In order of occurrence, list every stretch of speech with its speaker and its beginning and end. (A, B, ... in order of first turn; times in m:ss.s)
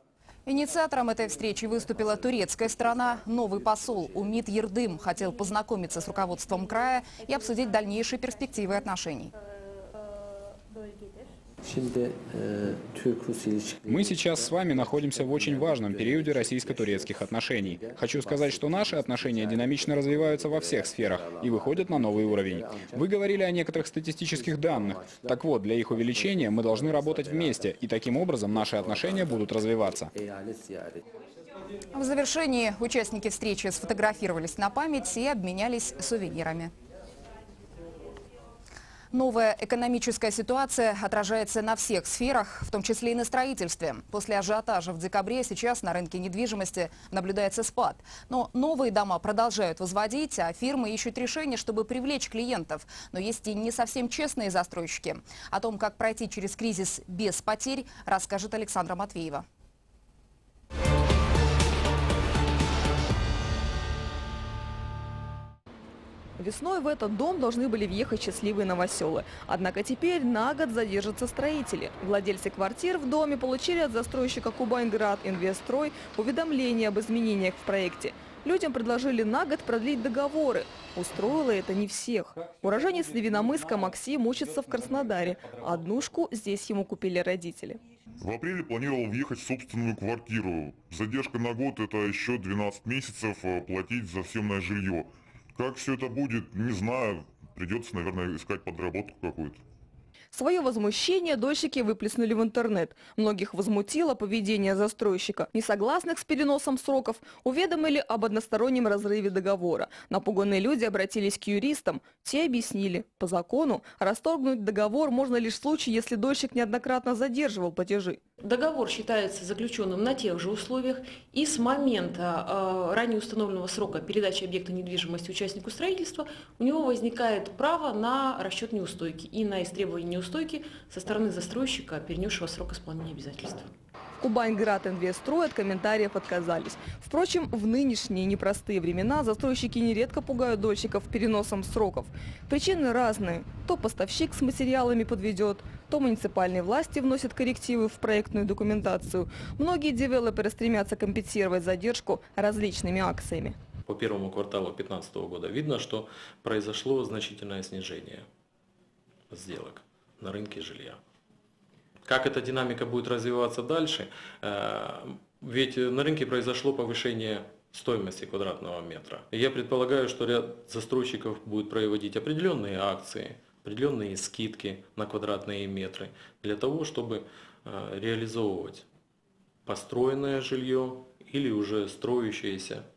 0:00.4-0:09.3 A
0:13.8-0:30.1 B
0:31.9-0:36.7 A
0:39.1-0:59.4 A
1:06.4-1:27.8 C
1:28.2-1:39.6 D
1:40.3-1:58.2 C
1:58.4-2:13.7 E
2:14.2-2:33.6 C
2:33.8-2:38.3 F
2:39.3-2:41.0 F
2:42.0-2:58.8 F
2:59.6-3:02.9 F